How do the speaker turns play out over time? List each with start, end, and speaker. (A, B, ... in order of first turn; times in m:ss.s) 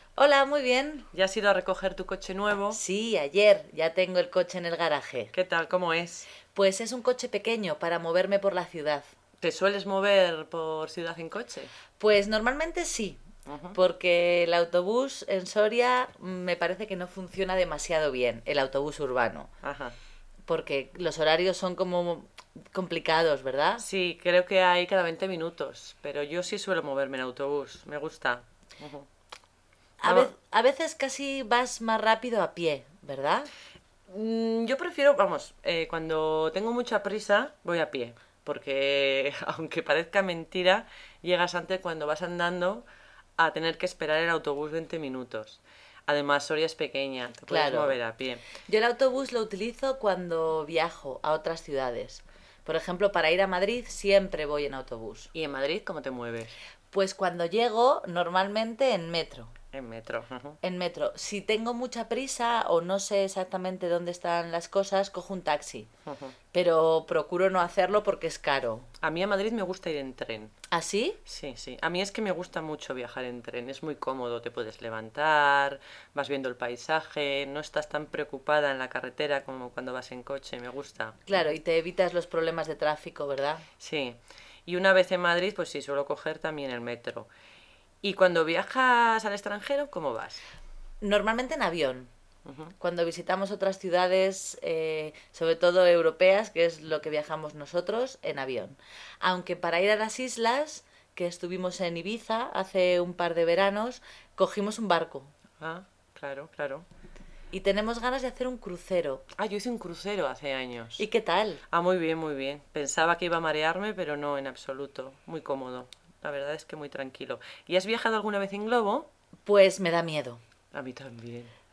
0:00.2-0:01.1 A
0:01.1-0:02.8 B
0:02.7-0:05.3 A
0:05.3-0:06.3 B
0:06.5-0:09.1 A
0:09.4-0:11.7 B
0:12.0-0:19.5 A
0:13.5-0:13.8 B
0:19.6-0:20.0 B
0:20.5-0:23.8 A
0:23.8-0:29.1 B
0:30.0-0:33.5 A
0:30.0-0:30.3 B
0:34.1-0:42.8 B
0:43.4-0:48.4 B
0:47.5-0:48.0 A
0:48.6-0:55.3 A
0:55.3-0:56.5 B
0:56.9-0:59.5 A
0:59.7-1:00.6 B
1:00.6-1:05.9 A
1:06.1-1:06.3 B
1:06.5-1:08.9 A
1:09.0-1:10.5 B
1:10.7-1:11.2 A
1:11.2-1:21.3 B
1:21.3-1:23.6 A
1:23.8-1:27.3 B
1:28.0-1:30.4 B
1:31.0-1:32.1 A
1:32.4-1:32.7 B
1:32.8-1:45.3 A
1:45.6-1:46.9 B
1:47.5-1:49.2 A
1:49.4-1:51.0 B
1:51.0-1:51.6 A
1:51.7-1:59.1 B
1:59.4-2:00.4 A
2:00.7-2:01.5 B